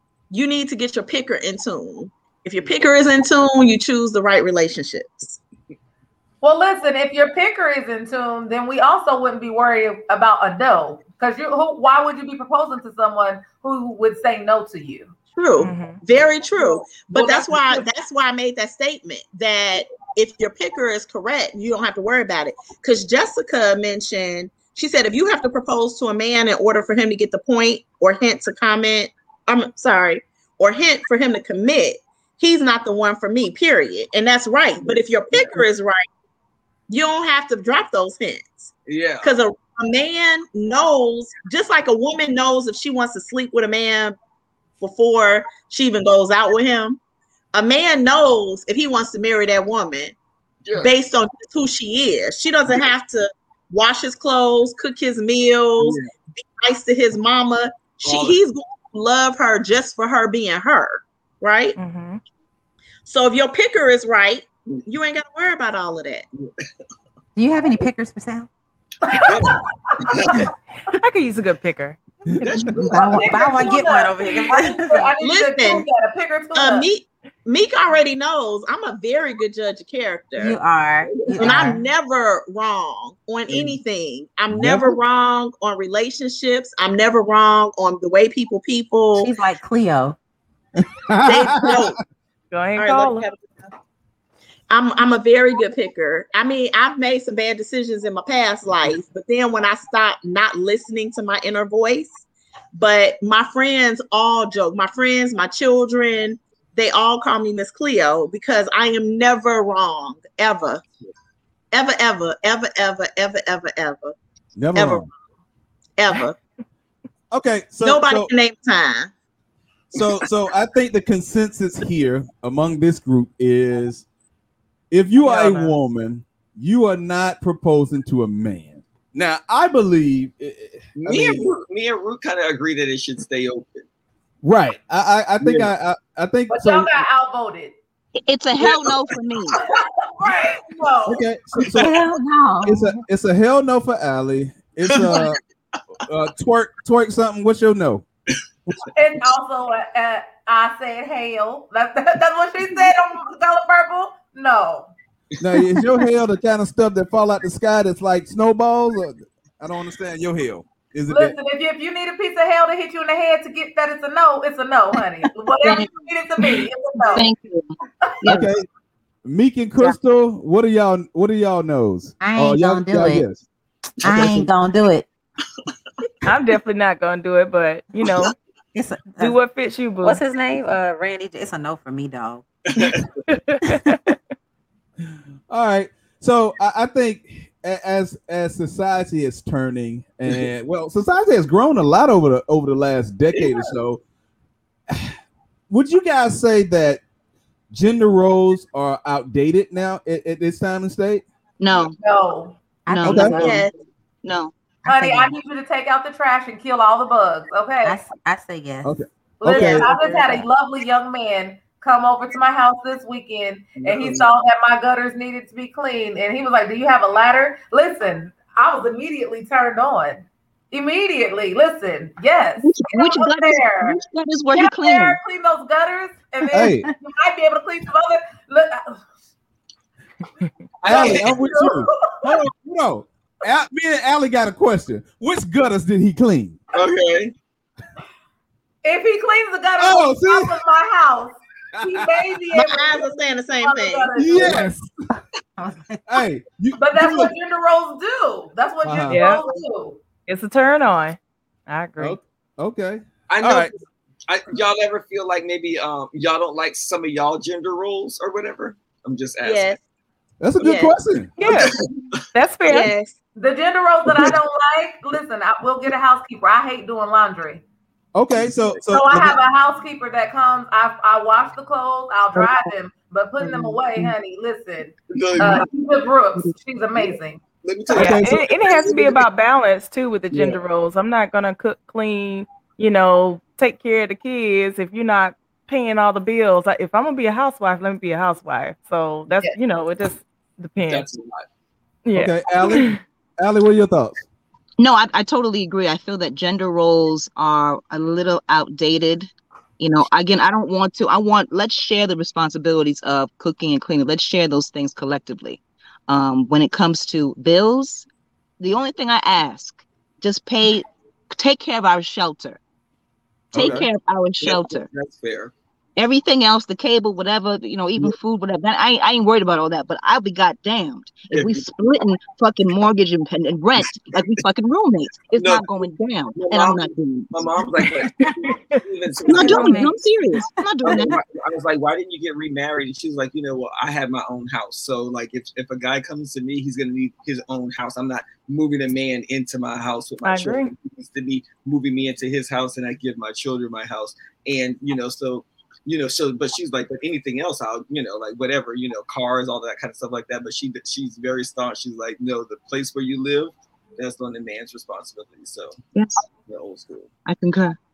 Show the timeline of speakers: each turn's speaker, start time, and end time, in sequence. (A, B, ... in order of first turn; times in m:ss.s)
0:00.3-0:05.4 A
0:06.4-0:15.1 B
0:15.3-0:36.0 A
0:15.6-0:16.0 C
0:16.6-0:17.6 B
0:17.1-0:17.4 D
0:34.8-0:35.6 D
0:36.9-0:38.7 A
0:38.9-0:39.3 D
0:39.2-0:44.2 A
0:44.8-0:47.0 A
0:47.5-0:50.1 A
0:50.6-0:50.9 D
0:50.8-1:01.8 A
0:55.8-0:56.1 D
0:58.0-0:58.4 D
1:01.8-1:02.2 C
1:03.0-1:06.2 A
1:06.4-1:06.6 D
1:07.4-1:08.5 E
1:09.0-1:10.4 B
1:09.2-1:10.5 D
1:10.9-1:12.7 C
1:12.4-1:13.4 D
1:12.8-1:15.1 E
1:13.2-1:16.9 B
1:15.2-1:15.9 A
1:16.5-1:20.6 A
1:20.4-1:21.8 E
1:21.1-1:21.5 D
1:21.4-1:29.3 A
1:24.5-1:25.0 F
1:29.2-1:30.2 E
1:30.8-1:32.0 F
1:31.2-1:32.0 A
1:32.5-1:33.2 C
1:32.8-1:33.7 A
1:34.7-1:42.2 A
1:42.7-1:50.8 A
1:51.7-1:54.1 A
1:54.6-1:55.0 F
1:54.7-1:55.1 A
1:56.0-1:56.4 A
1:57.3-1:58.3 F
1:57.8-1:59.1 A
1:59.9-2:04.0 F
2:04.9-2:11.5 F
2:05.2-2:05.8 C
2:10.9-2:13.8 D
2:14.4-2:17.0 F
2:15.4-2:15.7 D
2:16.5-2:17.7 B
2:18.2-2:19.6 G
2:18.6-2:19.1 D
2:19.5-2:21.2 B
2:21.0-2:21.8 F
2:21.8-2:23.0 E
2:22.6-2:25.4 F
2:24.8-2:25.3 D
2:26.1-2:28.0 F
2:28.9-2:34.9 B
2:35.4-2:41.3 F
2:41.1-2:47.3 B
2:45.6-2:45.9 G
2:47.0-2:47.7 G
2:48.2-2:48.5 G
2:48.2-2:48.7 F
2:49.2-2:53.4 F
2:52.2-2:53.2 E
2:54.0-2:55.1 E
2:54.0-2:54.5 F
2:56.2-2:58.3 C
2:58.1-2:58.3 D
2:58.7-2:59.4 E
2:59.2-3:00.2 C
3:00.0-3:02.4 E
3:02.7-3:03.1 D
3:03.3-3:04.2 C
3:05.5-3:14.0 F
3:13.3-3:13.7 D
3:15.7-3:17.0 F
3:17.7-3:21.2 F
3:21.6-3:22.0 G
3:22.0-3:22.6 B
3:22.8-3:23.6 E
3:22.9-3:23.7 G
3:23.0-3:23.4 F
3:23.3-3:23.7 A
3:24.2-3:24.5 G
3:24.8-3:25.3 E
3:24.8-3:28.0 B
3:27.8-3:28.9 E
3:28.8-3:29.9 F
3:29.4-3:44.0 B
3:29.5-3:30.5 E
3:33.8-3:34.3 D
3:42.6-3:45.2 G
3:44.5-3:49.0 B
3:46.5-3:46.9 F
3:50.8-3:51.5 D
3:50.8-3:56.6 F
3:50.9-3:52.4 B
3:56.7-3:57.3 D
3:58.8-4:03.0 B
3:59.8-4:00.6 F
4:01.8-4:02.0 F
4:02.5-4:04.6 A
4:03.6-4:04.7 B
4:04.1-4:04.9 F
4:05.6-4:06.0 E
4:06.1-4:07.3 F
4:06.8-4:10.0 B
4:08.8-4:09.4 F
4:09.1-4:09.4 C
4:10.3-4:11.2 C
4:11.7-4:12.2 C
4:12.0-4:13.7 F
4:13.3-4:13.8 D
4:14.3-4:19.8 D
4:19.4-4:19.8 A
4:20.4-4:21.3 F
4:20.6-4:21.0 A
4:21.4-4:21.7 C
4:21.4-4:22.1 D
4:22.3-4:22.9 C
4:22.7-4:23.1 A
4:23.4-4:27.6 B
4:28.1-4:29.4 F
4:28.3-4:28.9 D
4:28.9-4:37.4 B
4:35.1-4:39.2 D
4:37.9-4:38.4 F
4:38.0-4:51.1 C
4:40.3-4:40.6 D
4:50.8-4:51.5 D
4:52.0-4:53.0 C
4:52.1-4:54.2 F
4:54.8-5:08.1 G
5:08.6-5:12.6 G
5:13.5-5:13.8 F
5:13.5-5:14.9 G
5:13.6-5:13.8 D
5:14.4-5:15.5 D
5:16.0-5:27.8 G
5:21.3-5:21.6 D
5:25.3-5:25.6 D
5:26.3-5:29.9 D
5:28.4-5:28.8 C
5:29.2-5:31.2 G
5:29.3-5:29.9 A
5:29.4-5:31.1 E
5:30.8-5:55.8 D
5:40.2-5:40.7 C
5:55.9-5:56.2 G
5:56.4-5:57.1 D
5:57.2-5:57.8 G